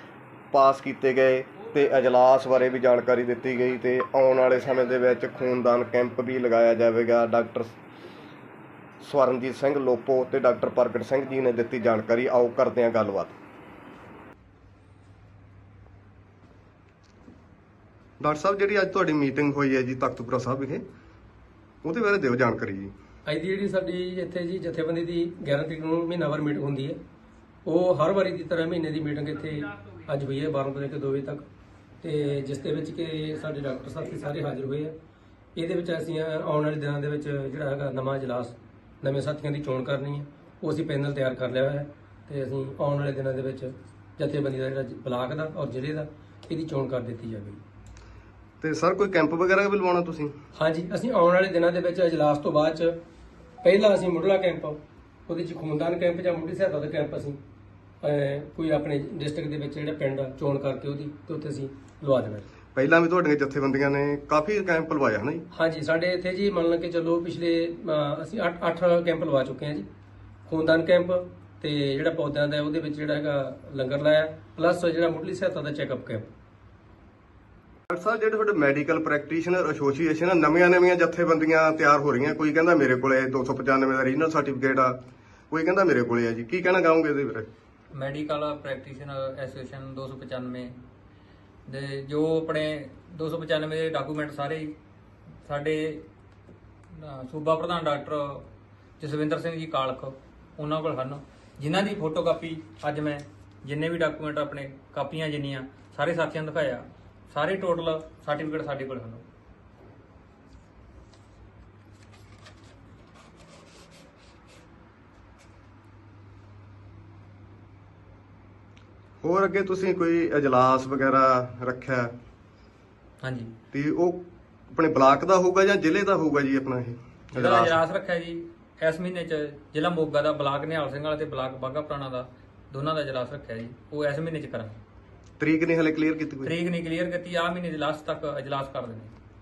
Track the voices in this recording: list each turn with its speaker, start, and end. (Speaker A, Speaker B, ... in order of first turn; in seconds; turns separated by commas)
Speaker A: 0.5-7.7, Speaker A: 9.0-13.4, Speaker A: 18.2-20.8, Speaker A: 21.8-22.9, Speaker B: 23.3-27.0, Speaker B: 27.7-31.4, Speaker B: 32.0-34.9, Speaker B: 35.6-47.6, Speaker A: 48.6-50.4, Speaker B: 50.5-53.0, Speaker B: 53.6-57.4, Speaker B: 58.0-62.5, Speaker A: 62.8-65.5, Speaker B: 65.5-69.8, Speaker B: 70.5-76.3, Speaker A: 77.9-85.0, Speaker A: 85.5-87.5, Speaker C: 87.9-90.8, Speaker C: 91.7-94.7, Speaker C: 95.5-96.1, Speaker C: 96.9-98.5, Speaker C: 99.0-109.2, Speaker A: 119.2-122.1, Speaker C: 123.2-123.5, Speaker A: 123.7-127.8, Speaker C: 127.3-134.8, Speaker A: 135.4-136.5, Speaker C: 136.4-139.1